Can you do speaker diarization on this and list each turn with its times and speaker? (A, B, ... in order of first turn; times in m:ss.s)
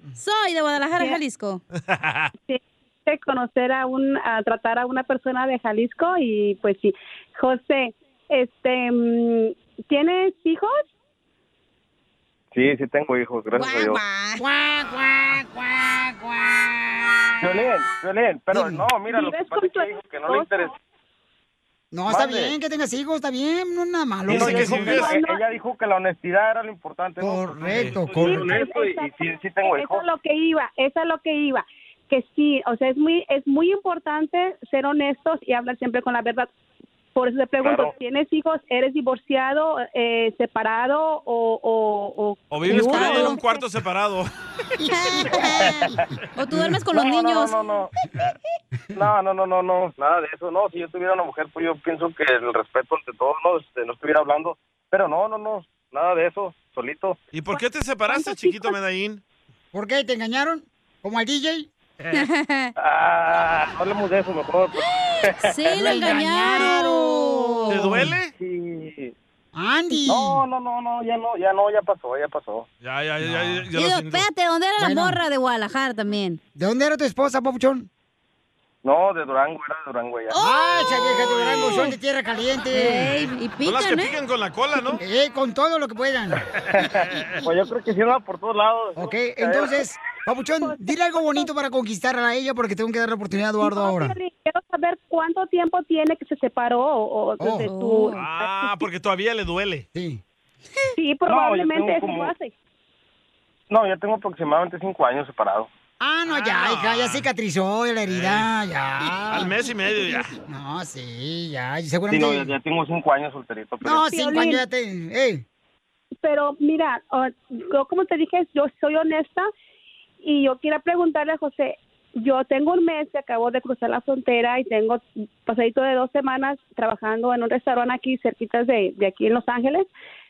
0:00.2-0:01.6 A
0:01.9-0:02.3 B
0:02.5-0:10.8 C
0:12.5-0:14.0 D
0:13.5-0:14.4 A
0:14.4-0:17.6 E
0:17.4-0:20.7 D
0:18.5-0:18.9 E
0:19.1-0:20.6 C
0:21.9-0:25.0 E
0:22.1-0:22.5 D
0:24.2-0:25.2 B
0:24.3-0:27.5 D
0:24.9-0:25.4 C
0:27.2-0:28.7 E
0:27.6-0:28.0 B
0:28.0-0:30.1 D
0:28.2-0:29.1 C
0:29.6-0:36.5 C
0:37.1-0:43.6 C
0:37.6-0:37.9 D
0:42.5-0:44.3 B
0:42.7-0:43.3 A
0:42.8-0:43.3 E
0:44.9-0:47.5 A
0:46.9-0:47.9 D
0:49.0-0:57.2 D
0:57.3-0:59.2 B
0:57.5-0:58.8 C
0:59.7-1:01.7 E
1:02.1-1:02.7 A
1:02.8-1:05.3 D
1:05.4-1:08.0 A
1:05.7-1:08.1 E
1:07.7-1:08.3 B
1:08.4-1:09.1 D
1:09.5-1:10.4 E
1:10.1-1:12.6 D
1:12.8-1:14.2 B
1:13.2-1:13.6 E
1:13.7-1:16.4 A
1:14.8-1:15.2 E
1:16.6-1:17.9 E
1:18.8-1:20.4 D
1:20.3-1:21.1 A
1:20.4-1:23.2 E
1:21.1-1:21.9 B
1:21.7-1:21.9 A
1:22.7-1:24.1 A
1:23.6-1:25.0 B
1:25.0-1:26.4 E
1:26.8-1:27.3 B
1:27.4-1:29.7 D
1:29.0-1:34.1 E
1:33.6-1:38.2 C
1:37.4-1:37.7 E
1:37.6-1:38.7 A
1:38.2-1:39.8 B
1:39.9-1:40.2 E
1:41.0-1:42.5 C
1:41.3-1:42.3 D
1:43.7-1:45.7 D
1:46.0-1:49.6 E
1:46.2-1:47.3 B
1:48.0-1:48.5 B
1:49.0-1:50.4 B
1:50.4-1:52.5 E
1:52.1-1:54.0 D
1:53.8-1:55.4 E
1:54.0-1:54.6 C
1:56.2-1:59.5 C
2:00.2-2:09.9 C